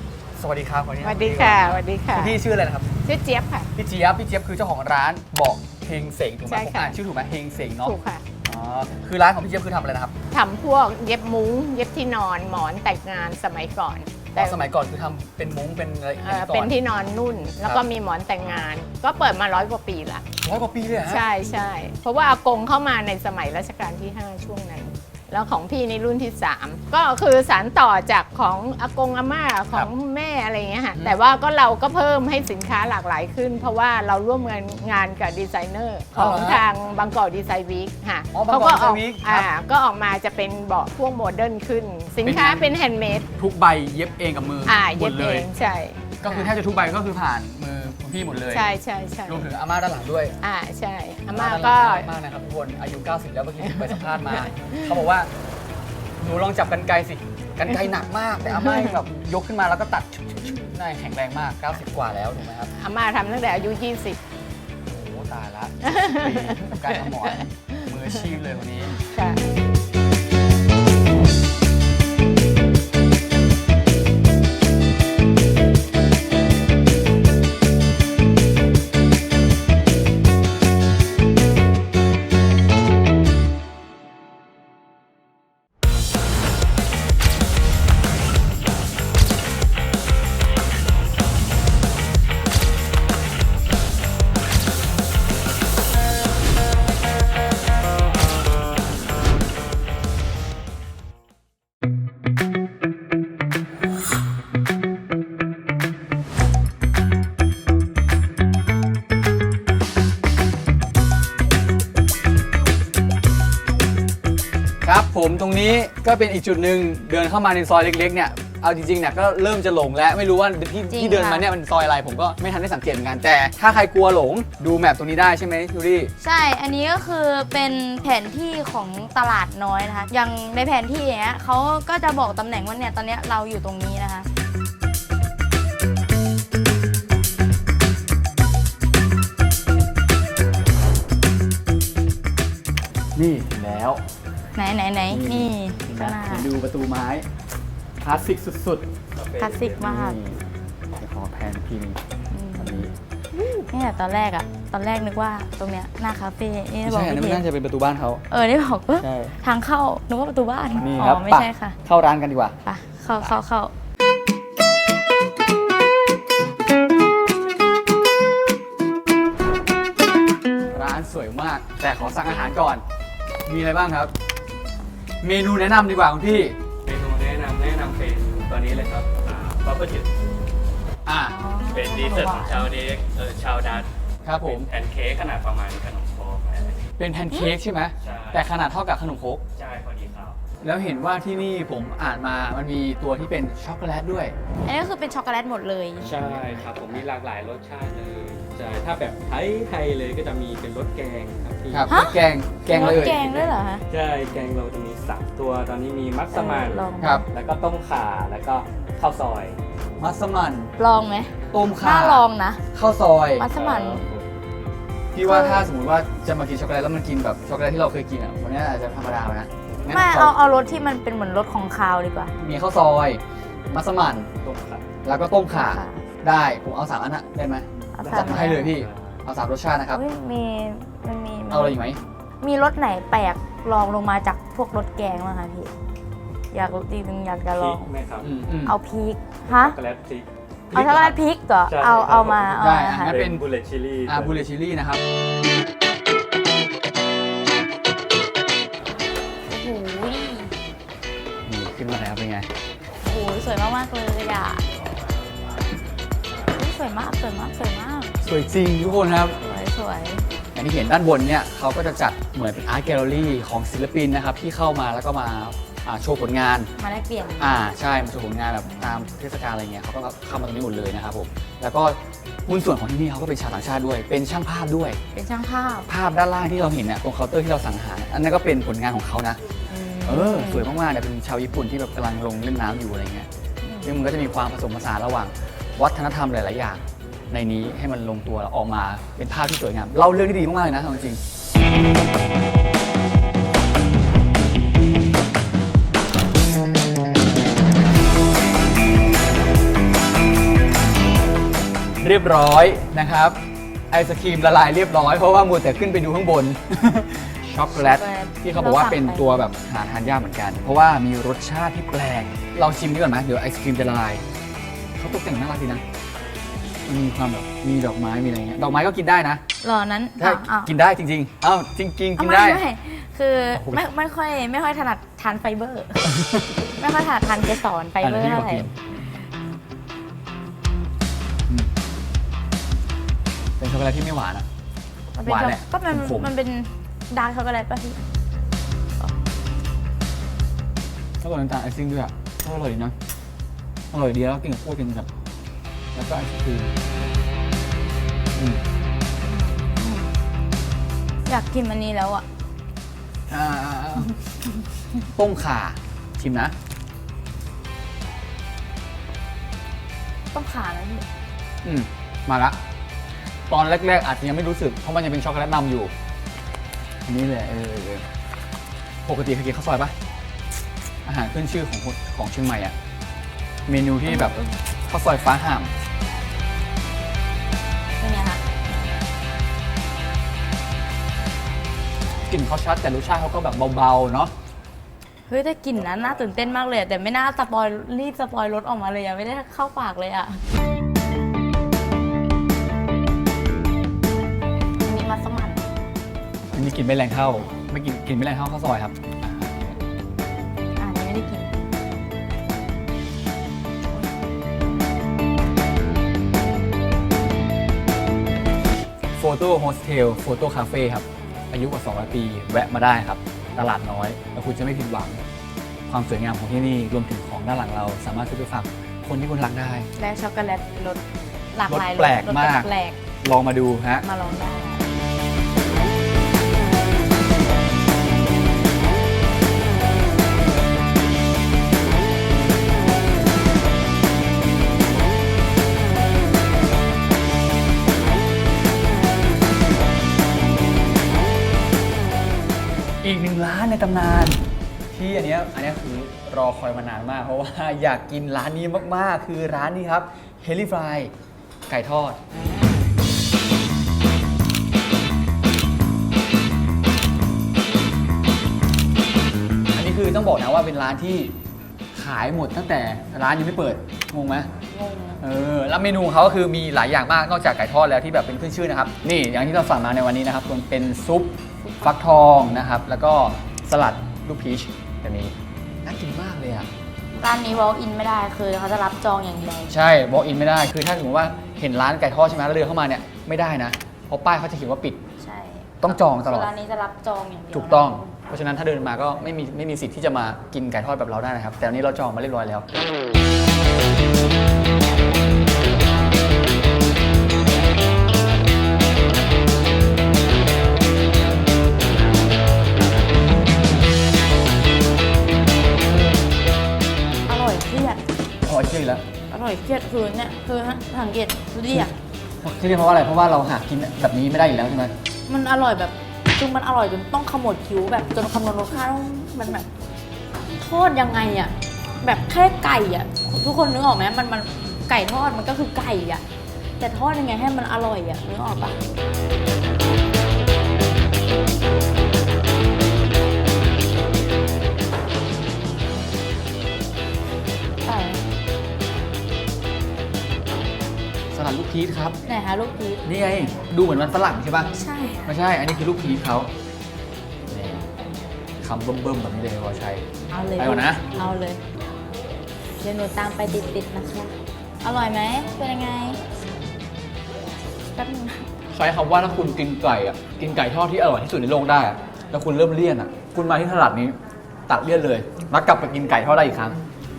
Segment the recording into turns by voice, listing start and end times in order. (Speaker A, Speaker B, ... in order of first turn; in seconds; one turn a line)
Speaker A: 0.4-2.9
Speaker B: 1.0-2.4
Speaker B: 3.0-3.7
Speaker A: 3.8-10.2
Speaker B: 6.5-6.9
Speaker B: 7.8-8.2
Speaker B: 10.3-14.6
Speaker A: 14.3-16.8
Speaker B: 16.2-20.2
Speaker A: 20.4-21.3
Speaker B: 21.1-43.3
Speaker A: 36.1-36.6
Speaker A: 38.3-39.5
Speaker A: 42.2-42.7
Speaker A: 43.4-45.5
Speaker B: 44.7-46.5
Speaker A: 46.2-48.7
Speaker B: 48.5-49.5
Speaker A: 49.3-50.4
Speaker B: 50.4-52.1
Speaker A: 51.3-55.3
Speaker B: 53.7-55.0
Speaker A: 56.2-62.7
Speaker B: 58.7-58.9
Speaker B: 62.8-64.2
Speaker A: 64.9-69.0
Speaker B: 65.9-67.9
Speaker B: 69.0-69.5
Speaker A: 114.8-126.1
Speaker C: 120.9-121.5
Speaker C: 126.2-134.3
Speaker A: 143.2-144.0
Speaker C: 144.6-146.5
Speaker A: 145.1-147.2
Speaker A: 148.0-148.9
Speaker D: 149.2-149.9
Speaker C: 149.4-150.2
Speaker A: 149.8-150.4
Speaker A: 151.0-152.0
Speaker C: 152.3-152.8
Speaker A: 152.6-152.9
Speaker C: 153.7-157.4
Speaker A: 156.8-158.2
Speaker C: 158.3-161.8
Speaker A: 159.0-159.3
Speaker A: 160.8-162.6
Speaker C: 162.7-163.7
Speaker A: 170.7-172.8
Speaker A: 173.5-174.1
Speaker A: 175.2-176.6
Speaker D: 176.8-180.1
Speaker A: 181.1-181.4
Speaker C: 181.3-182.7
Speaker D: 181.6-186.9
Speaker A: 184.2-184.7
Speaker A: 187.0-189.4
Speaker D: 188.0-188.4
Speaker D: 189.6-190.4
Speaker A: 190.6-194.3
Speaker C: 194.7-196.3
Speaker D: 196.0-201.9
Speaker A: 196.3-197.0
Speaker A: 201.7-203.2
Speaker C: 201.9-203.8
Speaker D: 202.7-209.6
Speaker C: 206.3-207.2
Speaker A: 210.0-210.7
Speaker C: 210.8-212.6
Speaker A: 211.5-213.5
Speaker C: 213.4-214.1
Speaker D: 213.5-214.3
Speaker A: 215.1-220.3
Speaker C: 215.2-215.7
Speaker C: 219.9-222.3
Speaker A: 222.4-224.3
Speaker D: 224.4-224.9
Speaker A: 225.0-230.0
Speaker C: 225.5-226.0
Speaker C: 228.0-228.7
Speaker D: 228.0-229.2
Speaker C: 229.9-231.8
Speaker A: 231.5-232.0
Speaker C: 232.4-235.7
Speaker C: 236.5-237.9
Speaker D: 237.5-238.3
Speaker A: 238.2-238.8
Speaker C: 238.7-239.8
Speaker D: 239.4-240.3
Speaker A: 240.7-241.1
Speaker C: 240.7-243.2
Speaker D: 241.7-244.5
Speaker A: 242.6-243.4
Speaker A: 244.1-245.0
Speaker C: 249.5-250.5
Speaker A: 251.5-252.5
Speaker C: 253.0-254.7
Speaker C: 256.5-258.2
Speaker A: 258.2-259.4
Speaker C: 259.4-260.3
Speaker A: 260.6-266.7
Speaker C: 266.8-267.5
Speaker A: 267.4-275.0
Speaker C: 268.6-269.0
Speaker C: 275.1-275.9
Speaker A: 275.9-279.4
Speaker C: 279.7-280.7
Speaker A: 280.1-283.3
Speaker C: 283.6-284.0
Speaker A: 283.8-291.2
Speaker A: 302.0-303.4
Speaker A: 303.9-314.2
Speaker C: 307.7-309.5
Speaker A: 315.0-315.8
Speaker A: 316.9-319.4
Speaker C: 319.6-320.7
Speaker A: 320.2-322.6
Speaker C: 322.2-326.1
Speaker A: 323.5-323.8
Speaker A: 326.1-326.5
Speaker C: 326.8-328.7
Speaker A: 328.0-328.7
Speaker A: 333.6-334.5
Speaker C: 335.1-338.0
Speaker A: 335.2-336.3
Speaker A: 341.2-342.9
Speaker A: 343.9-345.1
Speaker A: 345.9-346.7
Speaker A: 348.4-348.6
Speaker C: 349.2-350.1
Speaker C: 351.3-352.3
Speaker A: 353.3-354.1
Speaker A: 355.1-356.5
Speaker C: 360.3-361.1
Speaker A: 361.6-362.6
Speaker A: 363.5-365.9
Speaker A: 367.1-368.1
Speaker A: 369.1-369.9
Speaker A: 371.1-372.7
Speaker A: 373.7-374.4
Speaker C: 374.1-374.5
Speaker A: 374.9-375.7
Speaker C: 378.0-379.0
Speaker A: 382.2-384.3
Speaker C: 385.3-390.4
Speaker C: 394.8-395.6
Speaker A: 396.5-399.8
Speaker C: 400.8-401.5
Speaker A: 409.2-415.2
Speaker A: 415.9-419.9
Speaker C: 420.0-421.0
Speaker C: 421.5-423.0
Speaker A: 421.7-422.7
Speaker A: 423.2-424.1
Speaker C: 424.0-424.9
Speaker A: 443.0-444.4
Speaker A: 444.9-451.1
Speaker A: 451.7-452.2
Speaker A: 459.7-461.4
Speaker A: 461.9-464.5
Speaker C: 464.7-465.2
Speaker A: 465.2-476.7
Speaker C: 471.6-471.9
Speaker C: 477.1-479.8
Speaker A: 479.7-485.0
Speaker C: 485.2-488.2
Speaker A: 485.8-486.5
Speaker A: 487.5-492.7
Speaker C: 507.3-508.0
Speaker A: 508.5-509.0
Speaker C: 509.3-511.9
Speaker A: 512.4-514.9
Speaker C: 515.3-519.7
Speaker C: 520.5-526.2
Speaker C: 526.8-528.8
Speaker C: 537.9-538.2
Speaker A: 541.3-542.2
Speaker C: 542.3-543.0
Speaker A: 543.0-546.5
Speaker C: 544.7-545.3
Speaker A: 547.5-547.9
Speaker A: 548.6-550.1
Speaker C: 550.3-551.6
Speaker A: 550.6-551.2
Speaker C: 552.8-556.2
Speaker C: 558.0-558.5
Speaker A: 558.7-566.8